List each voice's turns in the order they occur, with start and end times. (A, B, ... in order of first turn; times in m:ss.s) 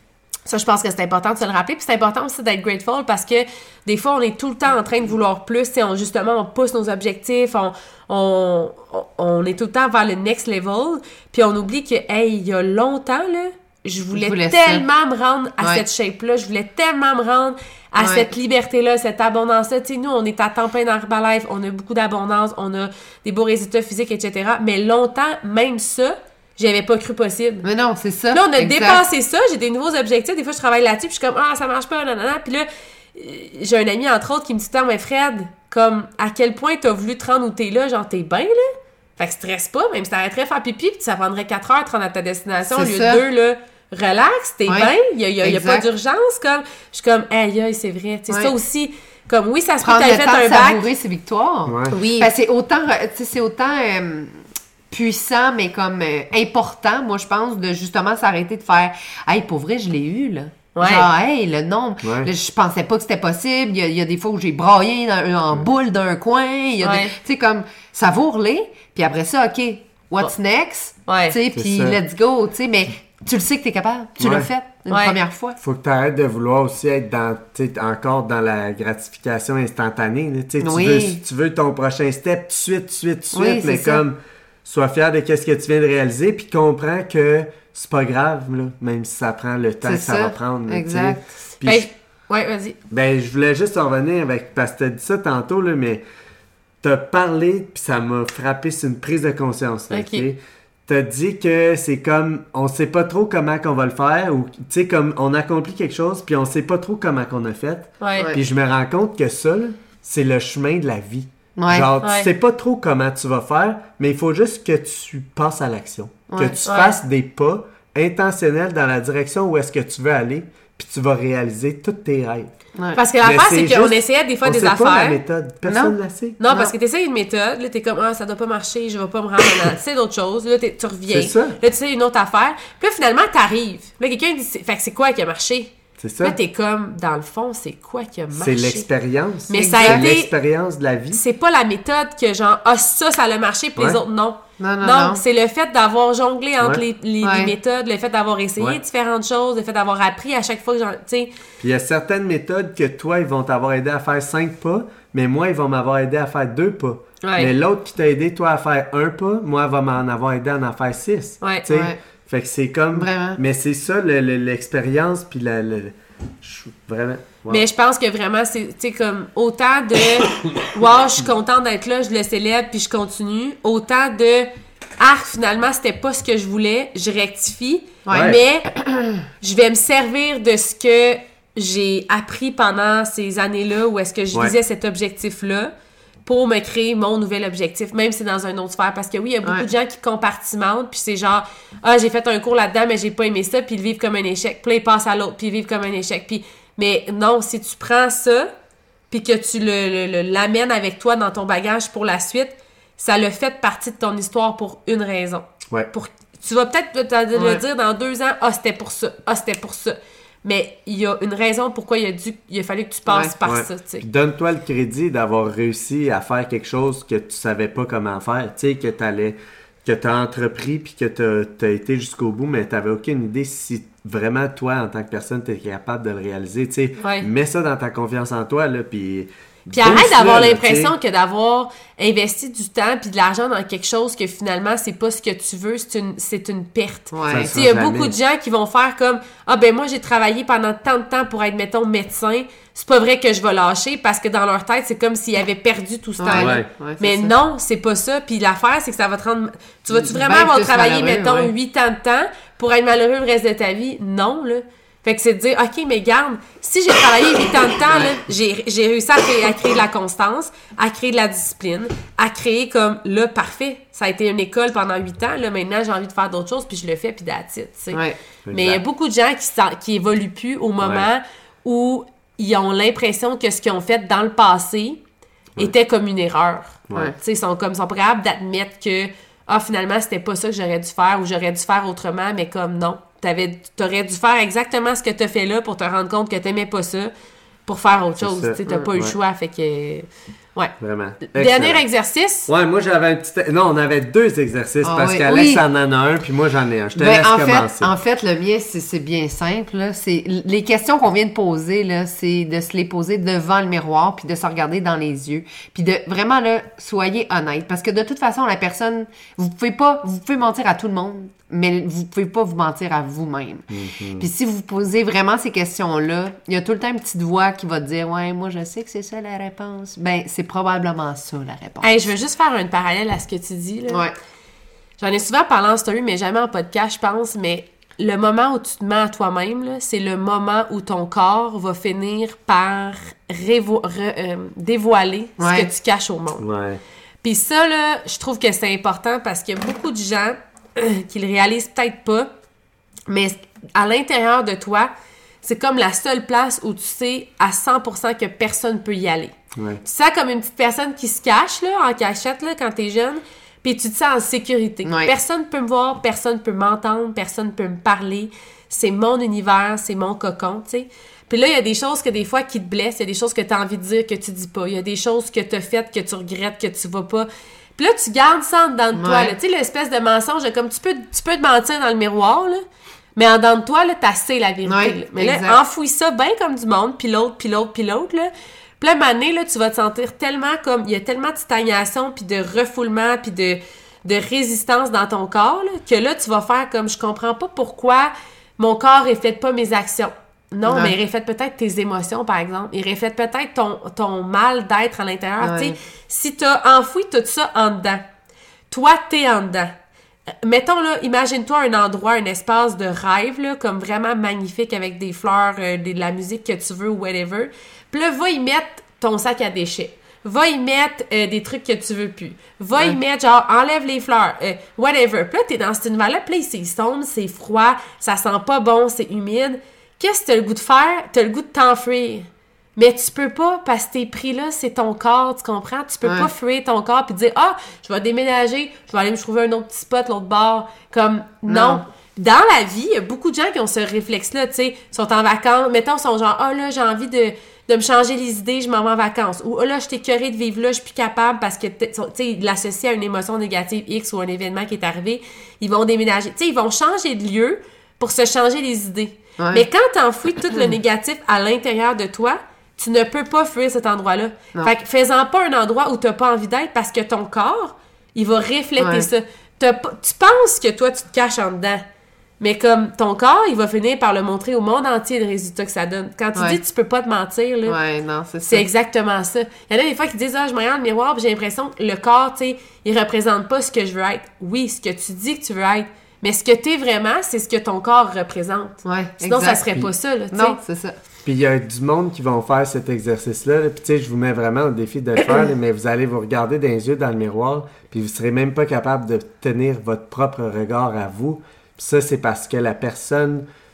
0:00.5-0:27.6 A
0:14.1-0:14.8 B
0:18.0-0:18.3 B
0:27.6-0:29.0 B
0:28.3-0:50.8 A
0:42.6-0:43.2 B
0:44.7-0:45.8 B
0:49.8-1:15.6 B
0:51.7-0:52.0 C
0:51.9-0:52.3 A
1:00.8-1:01.1 A
1:02.0-1:02.3 C
1:06.8-1:07.1 A
1:11.1-1:11.4 A
1:11.5-1:12.0 C
1:14.2-1:14.5 C
1:14.9-1:15.1 A
1:15.6-1:31.9 C
1:20.6-1:21.2 B
1:23.3-1:24.0 B
1:29.8-1:31.2 B
1:31.6-1:32.8 A
1:32.9-1:36.0 C
1:36.8-2:02.5 C
1:39.9-1:40.2 A
1:48.0-1:48.3 A
1:51.6-1:51.9 B
1:52.0-1:52.3 A
1:56.3-1:56.6 B
1:56.7-1:57.0 A
2:02.8-2:03.0 B
2:03.0-2:05.2 A
2:03.2-2:06.4 C
2:05.6-2:06.0 B
2:06.4-2:18.9 A
2:11.1-2:11.6 C
2:16.0-2:16.4 C
2:18.3-2:21.2 C
2:19.5-2:20.3 A
2:19.6-2:20.1 B
2:21.1-2:31.3 A
2:24.6-2:25.2 B
2:27.2-2:27.5 B
2:31.6-2:47.6 C
2:37.2-2:37.5 A
2:41.7-2:42.0 B
2:42.9-2:43.4 B
2:47.5-2:54.5 A
2:55.0-2:58.7 A
2:58.1-2:58.4 B
2:58.1-2:58.4 C
2:59.4-3:05.7 A
3:06.2-3:18.5 A
3:19.1-3:34.0 A
3:27.4-3:27.6 B
3:33.1-3:33.3 B
3:33.4-3:50.9 C
3:47.0-3:47.3 A
3:49.7-4:28.0 A
3:57.1-3:57.5 B
3:57.3-3:58.2 C
4:06.2-4:07.3 B
4:06.3-4:06.7 C
4:09.9-4:11.5 B
4:17.9-4:18.1 B
4:27.9-4:28.2 B
4:28.4-4:28.8 C
4:28.5-4:35.0 A
4:30.8-4:31.1 C
4:35.6-4:47.1 A
4:47.6-4:50.7 A
4:48.2-4:49.2 C
4:50.8-4:51.8 C
4:51.3-4:52.5 A
4:52.5-4:57.9 C
4:54.8-4:55.6 B
4:57.0-5:13.7 B
5:13.7-5:14.3 C
5:14.2-5:22.1 B
5:21.8-5:24.0 A
5:23.9-5:24.1 B
5:25.0-5:36.5 A
5:35.4-5:35.7 B
5:36.4-5:36.8 C
5:37.2-5:42.3 A
5:43.1-5:44.9 A
5:45.4-6:12.6 A
5:49.5-5:49.8 C
5:54.8-5:55.1 B
6:09.0-6:09.4 B
6:13.2-6:38.0 A
6:14.6-6:15.6 B
6:30.7-6:30.9 B
6:35.4-6:35.8 B
6:38.7-6:39.7 A
6:40.4-7:41.8 A
7:06.0-7:06.3 B
7:11.5-7:11.8 B
7:29.4-7:29.6 B
7:38.8-7:39.1 B
7:42.4-7:47.8 A
7:47.7-7:48.6 B
7:48.4-8:00.6 A
7:58.8-8:01.0 B
8:01.2-8:13.4 C